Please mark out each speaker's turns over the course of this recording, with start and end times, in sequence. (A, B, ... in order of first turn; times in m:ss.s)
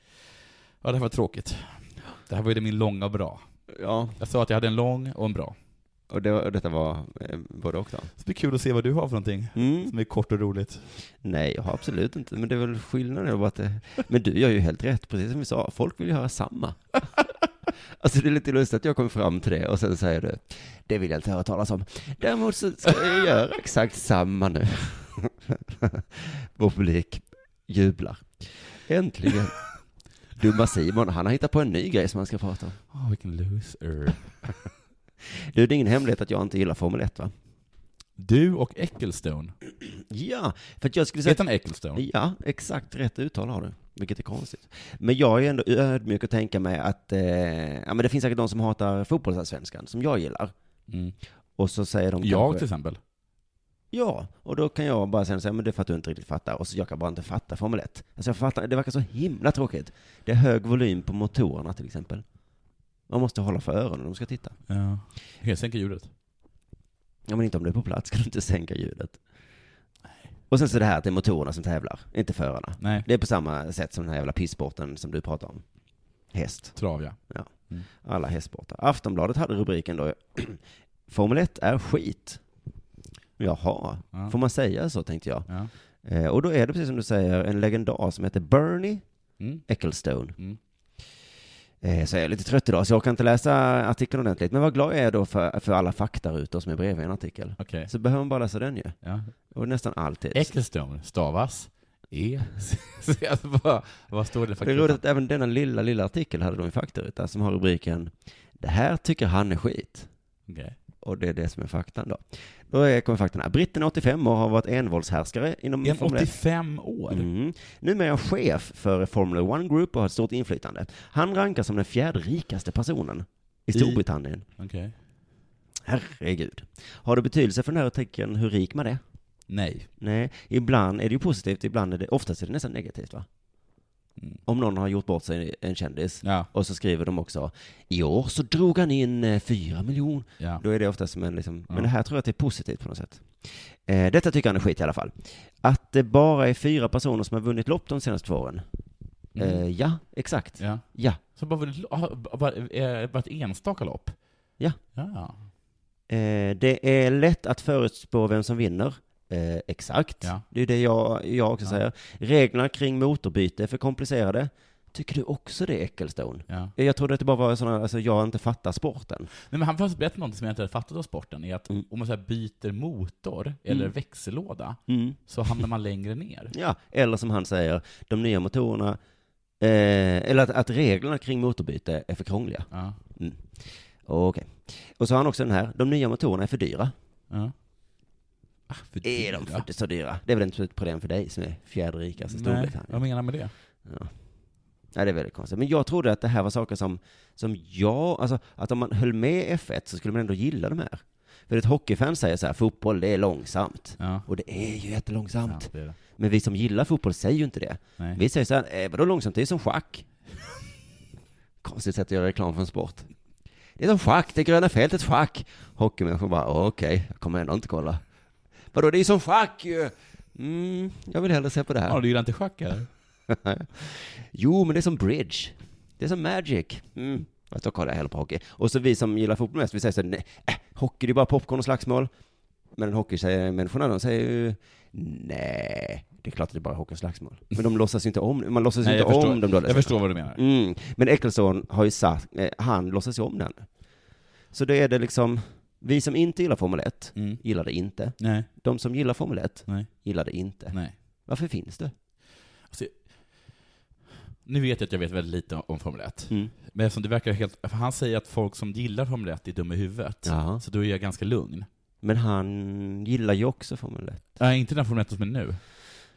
0:00.8-0:03.4 A
0:03.7-0:04.2 B
0:04.2-0:05.6 A
0:06.1-0:08.1 B
0:08.2-0:10.9 A
0:09.6-0:09.9 B
0:11.2-0:17.1 B
0:17.9-0:29.6 B
0:30.4-0:32.8 B
0:32.9-0:34.3 A
0:35.3-0:37.3 B
0:38.2-0:39.5 A
0:39.9-0:50.5 B
0:41.2-0:42.0 A
0:50.9-0:51.2 A
0:51.6-0:52.6 B
0:52.2-0:53.0 A
0:53.9-1:02.2 B
1:03.1-1:04.6 B
1:04.7-1:06.1 A
1:07.3-1:09.2 B
1:10.5-1:15.6 B
1:12.8-1:13.0 A
1:16.3-1:22.4 B
1:16.8-1:17.9 A
1:23.4-1:25.5 B
1:26.0-1:29.0 B
1:29.4-1:29.6 A
1:29.7-1:30.4 B
1:31.8-1:39.0 B
1:37.6-1:37.9 A
1:39.0-1:39.3 A
1:39.5-1:40.5 B
1:40.3-1:45.0 A
1:44.6-1:50.1 B
1:50.5-1:50.8 A
1:51.0-1:56.4 B
1:55.8-1:57.3 A
1:57.1-2:04.4 B
2:03.7-2:04.0 A
2:04.6-2:05.0 A
2:05.8-2:09.0 B
2:09.5-2:09.9 A
2:10.0-2:13.3 B
2:14.5-2:28.6 B
2:16.2-2:16.5 A
2:29.4-2:29.6 A
2:29.4-2:31.2 B
2:30.6-2:34.2 A
2:35.0-2:35.5 A
2:36.1-2:49.3 B
2:49.5-2:56.5 A
2:54.9-2:55.2 B
2:56.5-2:59.0 B
2:59.6-3:06.9 B
3:02.7-3:03.0 A
3:08.7-3:09.7 A
3:09.0-3:13.0 B
3:12.3-3:13.5 A
3:13.8-3:14.1 B
3:14.9-3:30.1 B
3:24.0-3:24.2 A
3:25.5-3:26.0 A
3:31.6-3:33.1 B
3:33.8-3:38.0 B
3:38.7-3:42.0 B
3:41.9-3:42.9 A
3:43.3-3:52.1 B
3:52.8-4:03.7 B
3:58.8-4:00.4 A
4:04.5-4:11.9 B
4:07.2-4:07.4 A
4:08.2-4:08.5 A
4:12.7-4:13.0 A
4:14.4-4:21.7 A
4:20.2-4:20.6 B
4:22.0-4:24.4 B
4:24.4-4:25.8 A